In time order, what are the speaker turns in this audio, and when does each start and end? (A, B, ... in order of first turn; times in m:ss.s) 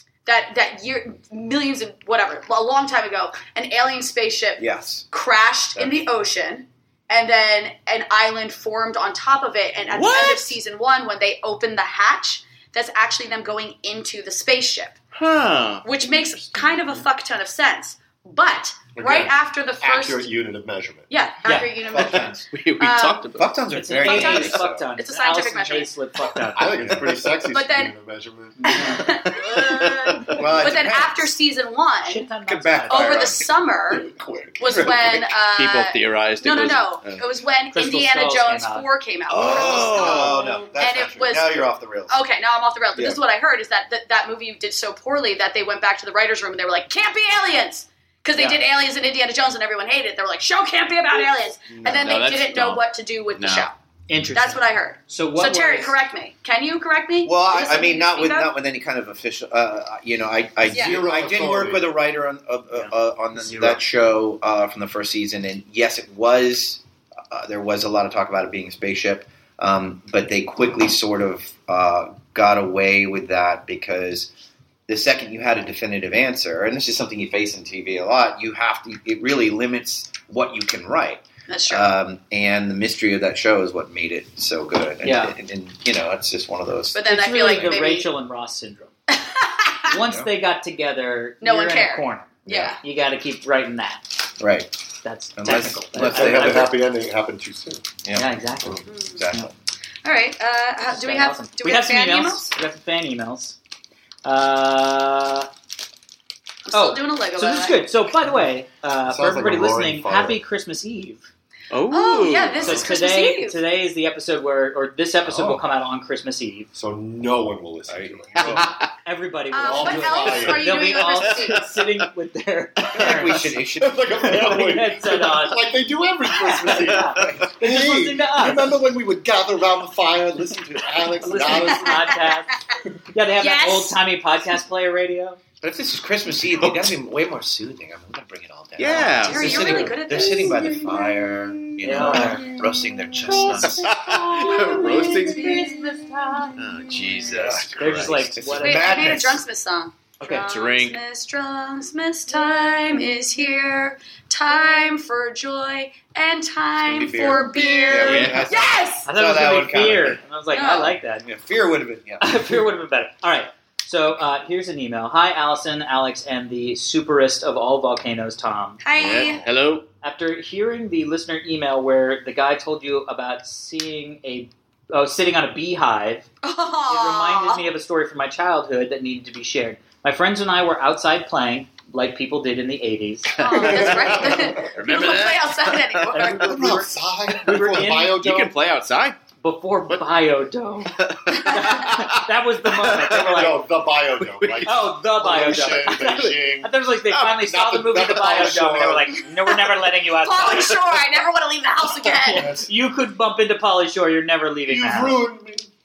0:00.2-0:15.0 A
0:04.6-0:05.0 B
0:05.8-0:06.0 B
0:09.8-0:10.6 C
0:15.1-0:15.8 C
0:15.8-0:20.3 A
0:19.0-0:21.1 D
0:21.1-0:23.3 A
0:21.4-0:21.7 E
0:21.4-0:22.4 B
0:22.0-0:23.5 C
0:23.3-0:24.9 B
0:23.7-0:26.8 E
0:23.9-0:25.9 A
0:26.5-0:28.8 D
0:27.5-0:27.9 A
0:28.6-0:29.1 E
0:28.7-0:32.2 A
0:29.2-0:30.4 C
0:30.3-0:31.3 B
0:32.0-0:33.2 E
0:32.4-0:33.5 B
0:32.9-0:34.0 A
0:34.0-0:37.2 C
0:34.2-0:35.3 B
0:34.6-0:53.7 A
0:37.7-0:38.8 E
0:39.3-0:42.2 B
0:39.3-0:40.6 C
0:48.3-0:48.6 E
0:51.7-0:52.1 B
0:51.9-0:52.8 C
0:53.4-0:53.7 C
0:54.1-0:55.9 E
0:54.3-0:58.5 A
0:57.2-1:14.3 B
1:00.7-1:01.9 D
1:00.7-1:01.0 A
1:03.5-1:03.8 C
1:14.9-1:27.7 B
1:21.5-1:21.9 A
1:25.0-1:25.3 E
1:26.9-1:28.1 A
1:27.0-1:28.9 E
1:29.1-1:29.9 A
1:29.9-1:34.2 E
1:29.9-1:30.3 B
1:31.4-1:32.7 A
1:32.4-1:32.8 B
1:34.4-1:34.7 B
1:35.0-1:36.7 E
1:35.4-1:36.7 B
1:36.0-1:37.9 D
1:38.0-1:39.5 B
1:38.1-1:39.5 E
1:38.9-1:39.2 A
1:40.0-1:42.4 A
1:40.9-1:43.6 E
1:44.2-1:45.5 E
1:46.7-1:47.9 A
1:46.7-1:51.3 E
1:49.1-1:50.4 D
1:51.7-1:52.8 C
1:51.9-1:53.6 A
1:52.6-1:56.7 E
1:55.3-1:55.6 D
1:56.7-1:58.7 D
1:57.9-1:58.7 B
1:58.4-1:58.9 C
1:59.0-2:03.6 E
1:59.5-2:01.7 A
1:59.6-2:00.7 D
2:01.2-2:01.6 C
2:02.9-2:04.2 B
2:03.8-2:12.2 D
2:04.2-2:05.6 E
2:06.3-2:08.8 E
2:11.2-2:12.5 E
2:11.4-2:12.6 A
2:13.1-2:15.4 E
2:13.4-2:14.0 A
2:15.6-2:24.0 B
2:18.8-2:22.5 C
2:19.2-2:20.9 A
2:21.8-2:22.6 E
2:23.2-2:25.8 C
2:24.1-2:26.6 E
2:24.4-2:25.8 A
2:26.6-2:28.3 C
2:27.1-2:29.4 B
2:27.8-2:29.0 E
2:28.6-2:39.1 A
2:30.2-2:31.0 C
2:36.8-2:40.2 B
2:37.8-2:38.5 C
2:39.0-2:41.2 E
2:40.5-2:40.9 A
2:41.2-2:42.4 B
2:42.2-2:48.8 E
2:48.8-2:49.4 A
2:49.0-2:49.8 C
2:50.0-2:56.3 E
2:56.4-2:57.6 A
2:56.9-3:03.4 E
3:03.3-3:06.2 C
3:03.3-3:06.5 A
3:03.5-3:04.6 D
3:06.1-3:08.2 E
3:06.4-3:08.6 D
3:08.1-3:09.2 C
3:09.4-3:13.6 E
3:11.0-3:13.4 C
3:13.2-3:16.7 D
3:14.3-3:14.7 C
3:14.6-3:20.8 E
3:17.1-3:18.0 C
3:17.5-3:19.2 D
3:20.2-3:22.5 A
3:22.0-3:25.2 E
3:22.3-3:22.7 D
3:24.6-3:25.7 D